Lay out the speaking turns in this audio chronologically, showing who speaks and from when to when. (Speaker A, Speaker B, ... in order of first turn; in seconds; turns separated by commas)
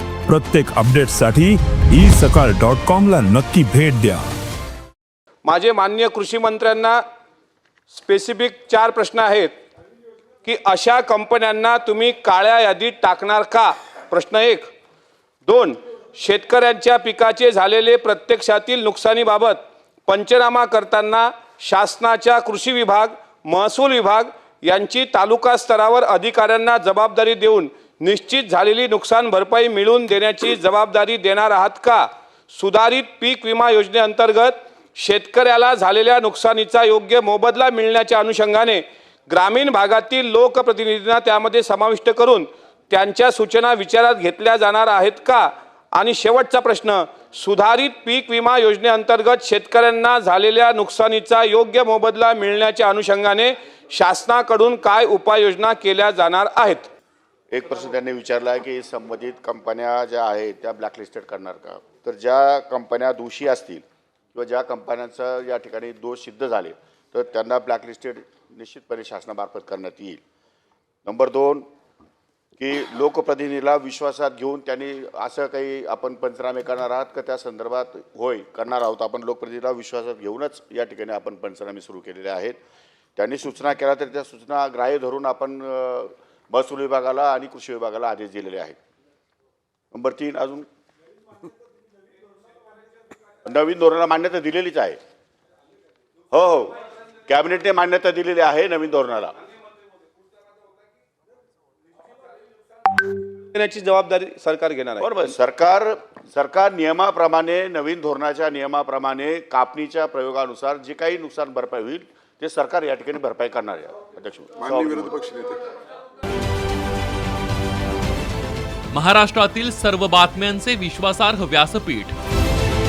Speaker A: 0.3-4.3, Speaker B: 5.4-7.0, Speaker B: 7.9-9.6, Speaker B: 10.4-14.7, Speaker B: 15.4-56.9, Speaker C: 57.5-63.8, Speaker C: 64.3-70.2, Speaker C: 71.0-71.7, Speaker C: 72.6-82.6, Speaker C: 83.2-88.8, Speaker C: 89.9-90.7, Speaker C: 93.4-95.0, Speaker C: 96.3-99.3, Speaker B: 103.3-105.1, Speaker C: 105.0-115.2, Speaker D: 118.9-122.2